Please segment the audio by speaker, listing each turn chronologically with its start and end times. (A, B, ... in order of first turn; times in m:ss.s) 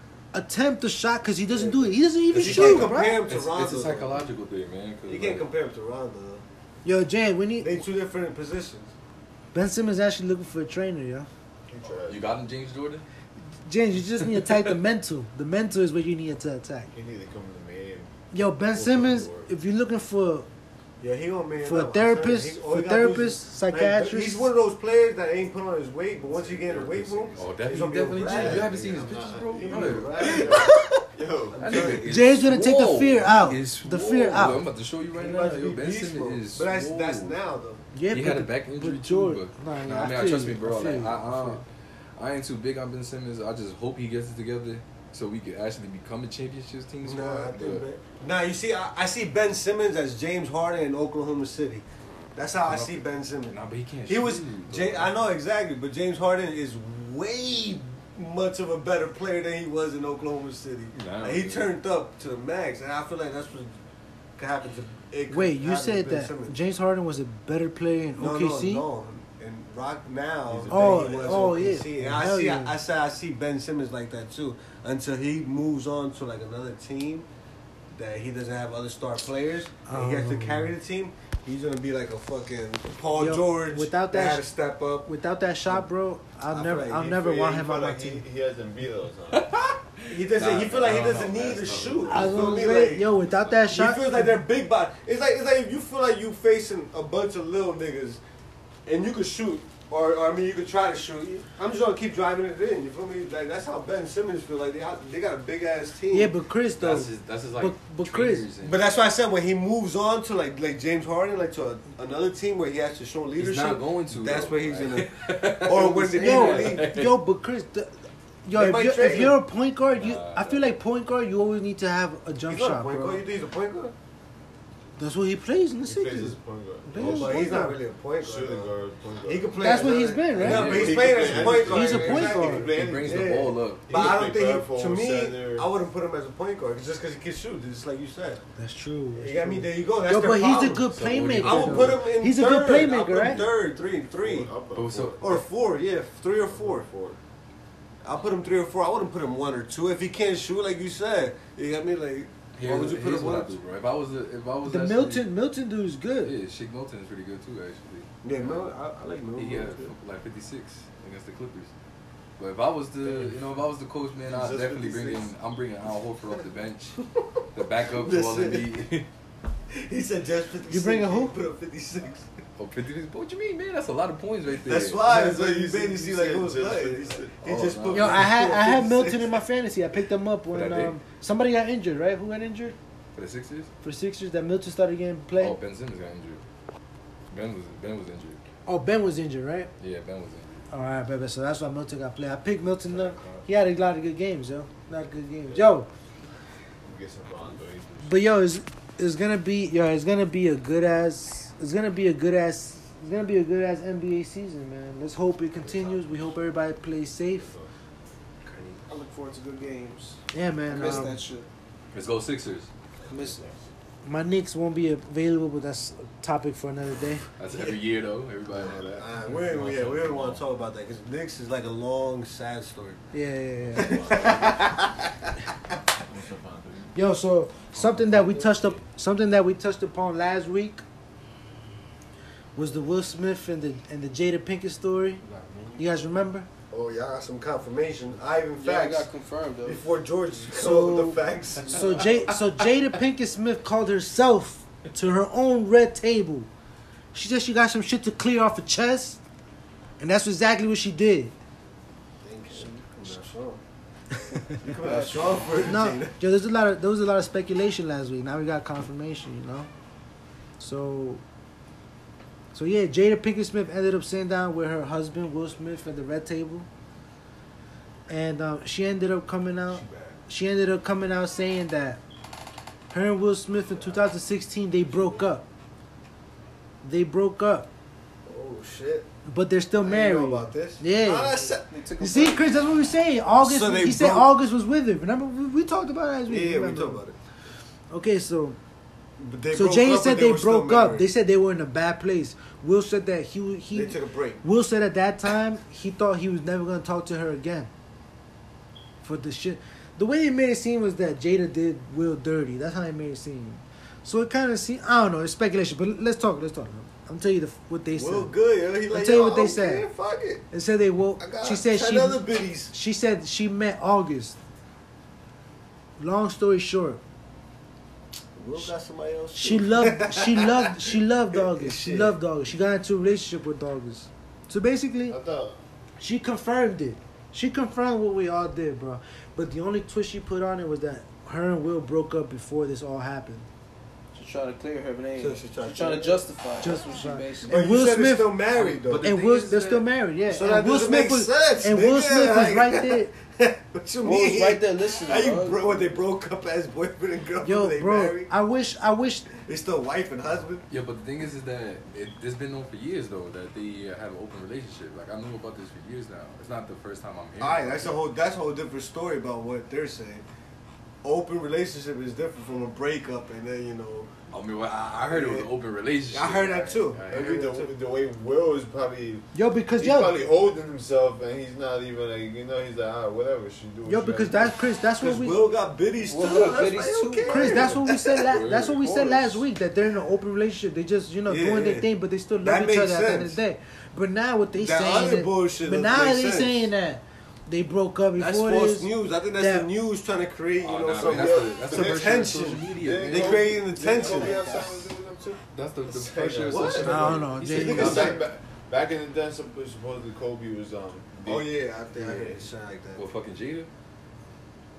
0:00.3-0:03.2 A
0:01.5-0:04.3 B
0:02.3-0:05.5 C
0:05.1-0:06.4 B
0:06.8-0:07.8 A
0:07.6-0:08.9 B
0:09.5-0:11.3 A
0:11.7-0:12.4 D
0:12.1-0:13.0 C
0:13.6-0:16.9 A
0:14.2-0:14.6 C
0:16.9-0:18.1 D
0:18.3-0:20.5 A
0:18.7-0:19.5 D
0:21.0-0:30.7 B
0:21.6-0:24.5 A
0:26.3-0:27.5 D
0:27.3-0:30.6 C
0:28.2-0:32.0 D
0:31.5-0:32.1 B
0:31.6-0:37.4 C
0:32.0-0:34.6 A
0:35.1-0:37.8 B
0:37.9-0:41.6 A
0:38.1-0:41.6 C
0:42.2-0:47.8 C
0:47.0-1:03.7 B
0:52.6-0:55.1 C
1:00.9-1:01.7 C
1:04.4-1:06.6 B
1:05.3-1:08.9 A
1:08.2-1:17.3 B
1:10.5-1:11.6 D
1:10.7-1:12.8 A
1:17.9-1:25.1 B
1:19.9-1:20.7 A
1:23.2-1:24.4 A
1:25.0-1:28.2 A
1:26.5-1:27.2 B
1:26.9-1:29.5 D
1:29.3-1:32.5 C
1:30.1-1:38.2 B
1:32.1-1:34.4 A
1:38.9-1:46.3 B
1:46.1-1:48.4 A
1:46.8-1:48.9 C
1:48.6-1:56.9 B
1:53.4-1:57.2 C
1:56.2-2:03.2 A
1:58.5-1:59.4 B
1:59.9-2:00.7 C
2:02.5-2:04.0 B
2:05.0-2:07.8 A
2:05.9-2:15.7 D
2:07.0-2:18.4 B
2:09.6-2:12.7 A
2:10.4-2:11.9 C
2:12.7-2:14.2 C
2:18.6-2:23.4 A
2:19.1-2:24.5 B
2:20.9-2:22.0 C
2:24.1-2:25.4 D
2:24.7-2:25.3 C
2:25.2-2:26.9 B
2:26.4-2:27.2 D
2:28.0-2:33.6 B
2:32.6-2:35.3 C
2:34.7-2:36.3 A
2:36.2-2:38.7 C
2:38.2-2:39.9 B
2:39.4-2:41.7 C
2:42.4-2:47.0 C
2:44.3-2:45.2 D
2:47.5-2:49.1 C
2:47.8-2:48.9 B
2:49.7-2:52.3 B
2:50.7-2:51.3 A
2:52.6-2:55.0 C
2:54.5-2:59.4 B
2:55.0-2:57.3 D
2:57.4-2:58.3 C
2:57.9-3:02.8 A
3:00.5-3:01.0 C
3:03.1-3:03.7 C
3:03.8-3:05.6 A
3:05.4-3:06.4 C
3:07.3-3:08.4 C
3:08.7-3:09.7 A
3:09.8-3:10.6 C
3:10.7-3:15.9 A
3:16.8-3:18.2 D
3:18.0-3:27.5 A
3:25.6-3:26.3 D
3:27.3-3:27.7 D
3:28.4-3:28.8 B
3:28.8-3:31.5 E
3:30.3-3:31.2 A
3:31.9-3:32.7 C
3:33.1-3:33.6 D
3:33.1-3:33.4 E
3:34.0-3:37.2 A
3:37.4-3:40.4 C
3:38.5-3:43.0 B
3:43.1-3:44.3 A
3:43.7-3:44.7 D
3:43.7-3:45.1 B
3:46.1-3:46.9 D
3:47.0-3:50.8 A
3:52.6-3:55.2 A
3:55.3-3:55.8 D
3:55.8-3:56.5 A
3:56.7-3:59.1 B
3:58.6-3:59.8 E
3:59.6-4:02.1 B
4:00.5-4:06.5 A
4:07.1-4:09.2 A
4:10.0-4:11.3 A
4:12.2-4:13.6 B
4:12.6-4:12.9 E
4:14.6-4:16.2 B
4:14.6-4:15.5 E
4:15.6-4:19.7 A
4:20.6-4:21.2 A
4:22.5-4:26.7 A
4:28.1-4:32.0 A
4:29.8-4:30.1 B
4:32.9-4:35.4 A
4:34.9-4:35.3 B
4:36.8-4:37.7 A
4:38.2-4:39.1 B
4:39.3-4:41.4 A
4:39.8-4:41.8 B
4:41.4-4:42.7 E
4:42.0-4:47.0 A
4:43.4-4:44.3 B
4:46.3-4:47.2 B
4:47.9-4:48.6 A
4:49.2-4:51.1 B
4:49.5-4:57.7 A
4:53.7-4:54.4 B
4:59.0-5:08.3 A
5:07.9-5:10.4 B
5:08.9-5:09.9 A
5:10.5-5:14.4 A
5:11.2-5:12.7 B
5:16.0-5:17.0 A
5:18.3-5:22.2 B
5:19.3-5:25.2 A
5:25.1-5:25.6 D
5:26.0-5:33.5 A
5:34.1-5:37.6 E
5:35.2-5:36.2 B
5:36.6-5:38.4 A
5:37.4-5:39.1 B
5:38.5-5:39.9 C
5:39.0-5:43.1 A
5:40.3-5:48.3 B
5:44.0-5:45.6 E
5:47.4-5:49.3 A
5:49.3-5:50.6 B
5:50.7-5:58.0 C
5:57.4-6:00.3 B
6:01.0-6:04.1 B
6:04.3-6:06.7 C
6:05.1-6:05.4 B
6:06.1-6:07.7 B
6:06.5-6:14.6 D
6:09.3-6:10.2 A
6:13.8-6:15.4 A
6:15.0-6:18.2 B
6:16.0-6:17.5 E
6:17.3-6:29.7 A
6:18.2-6:19.4 C
6:21.3-6:21.9 B
6:22.4-6:23.4 B
6:24.5-6:26.7 B
6:28.1-6:34.7 B
6:30.6-6:33.6 C
6:31.0-6:42.4 D
6:34.0-6:34.6 E
6:35.5-6:38.2 C
6:36.4-6:38.2 B
6:36.8-6:38.1 A
6:41.3-6:43.0 B
6:43.0-6:43.7 C